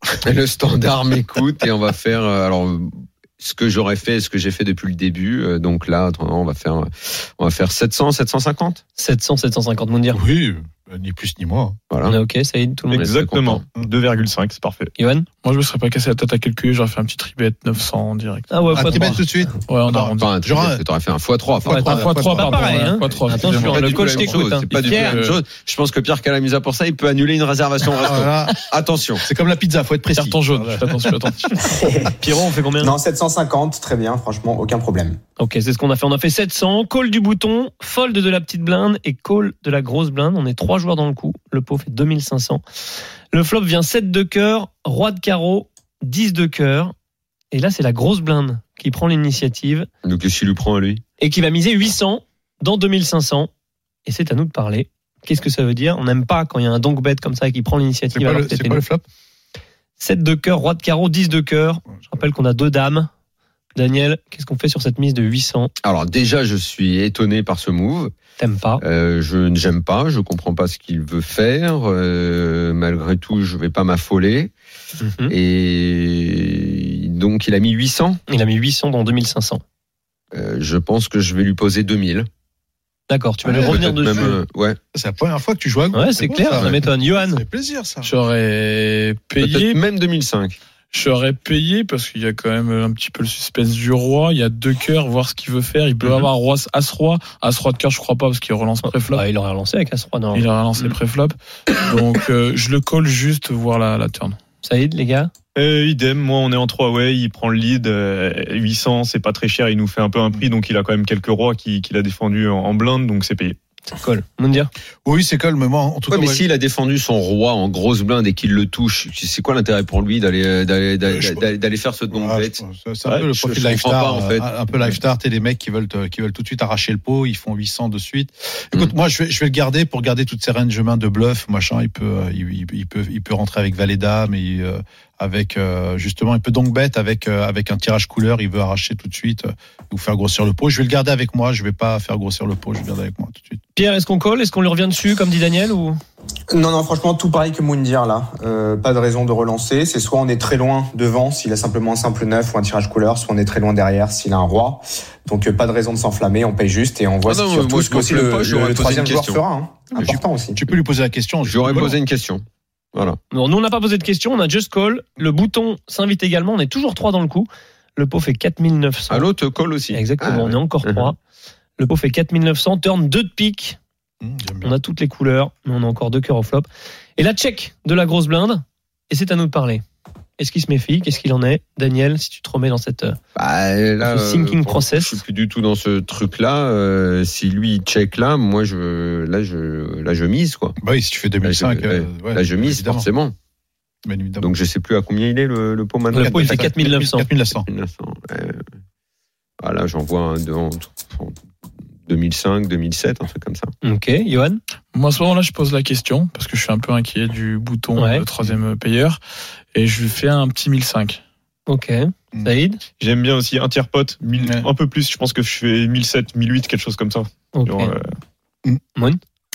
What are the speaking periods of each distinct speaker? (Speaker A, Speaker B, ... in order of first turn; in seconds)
Speaker A: 0.2-8.8, 11.9-12.2, 12.9-13.6, 20.2-22.0, 23.4-29.2, 50.0-51.0, 65.8-68.1, 68.8-74.5, 75.3-78.2, 80.3-82.3, 83.6-84.8, 89.4-90.5, 116.1-124.9, 157.2-159.4, 161.4-162.4, 169.1-171.1, 183.3-190.8, 191.4-193.3, 194.4-196.8, 197.7-198.6, 199.6-201.4, 202.1-203.7
Speaker B: 9.0-10.2, 12.0-13.1, 15.0-15.3, 18.5-19.2, 21.6-25.2, 32.2-33.0, 35.4-42.6, 43.3-46.9, 47.5-49.9, 51.2-53.5, 54.0-58.8, 60.0-63.1, 63.8-65.7, 68.4-68.8, 75.0-75.3, 78.3-79.6, 83.1-84.4, 85.9-87.4, 98.8-100.4, 104.6-105.3, 113.9-114.7, 143.8-146.0, 163.3-169.3, 169.9-171.2, 171.8-173.8, 174.6-179.8, 180.4-183.2, 184.0-185.2, 196.1-197.3, 203.8-204.6, 207.9-208.2, 211.7-212.8, 217.5-217.9
Speaker C: 10.1-11.8, 18.7-20.8, 21.6-22.9, 28.0-28.5, 29.2-31.4, 58.1-59.0, 83.5-84.4, 84.9-88.1, 115.0-116.4, 121.1-121.5, 122.1-143.6, 160.0-162.0, 174.2-174.7, 190.8-193.1, 194.0-194.5, 196.1-197.7, 214.4-214.7
Speaker D: 12.9-14.9, 105.5-113.6, 213.0-218.1
Speaker E: 15.4-20.4, 21.9-25.4, 30.1-31.6, 88.0-89.8, 90.9-99.2, 100.3-104.4, 204.9-209.2, 209.7-211.2
Speaker F: 31.6-32.1, 32.8-35.2, 146.5-160.7